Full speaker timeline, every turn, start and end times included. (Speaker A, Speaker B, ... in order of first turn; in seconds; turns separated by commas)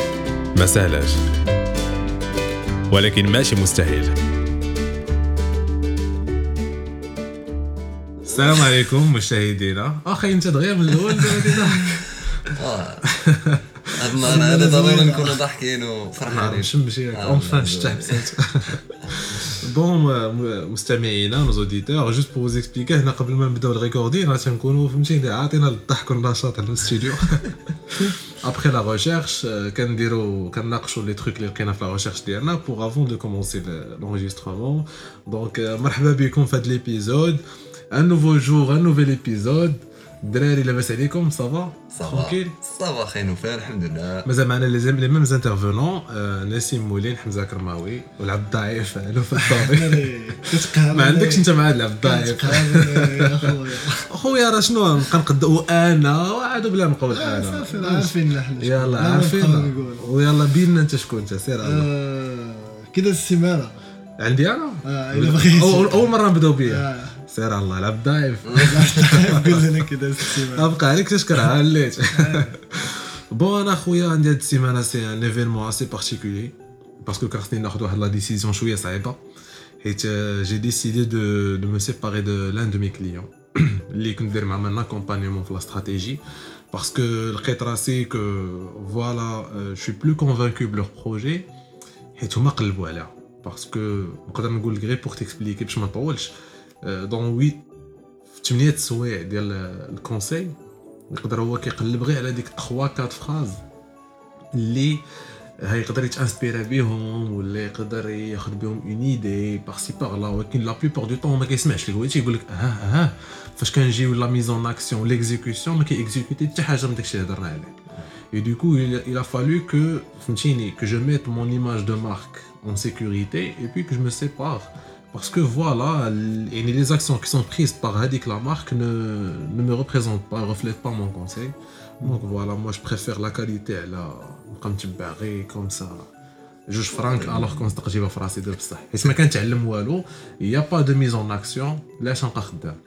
Speaker A: 0.5-1.2, Speaker A: 2.9-4.1, Speaker A: 8.2-12.1, Speaker B: 8.3-8.8, Speaker B: 11.1-13.1, Speaker A: 13.0-14.0, Speaker B: 13.9-18.3, Speaker C: 14.2-15.4, Speaker A: 16.2-37.4, Speaker B: 19.1-19.6, Speaker A: 37.9-42.5, Speaker B: 41.9-44.3, Speaker A: 44.2-53.5, Speaker C: 49.3-51.5, Speaker C: 52.0-54.1, Speaker A: 54.1-61.9, Speaker C: 57.1-60.0, Speaker C: 61.6-63.7, Speaker A: 64.2-79.2, Speaker C: 64.8-66.1, Speaker C: 66.6-67.2, Speaker B: 68.5-68.8, Speaker C: 68.5-70.7, Speaker C: 72.1-72.5, Speaker A: 79.8-86.2, Speaker A: 86.7-91.5, Speaker A: 92.2-96.3, Speaker A: 96.8-97.6, Speaker A: 98.3-100.5, Speaker A: 101.1-103.6, Speaker A: 104.5-105.0, Speaker A: 105.6-117.7, Speaker A: 118.3-136.1, Speaker A: 136.7-142.8, Speaker B: 136.9-137.7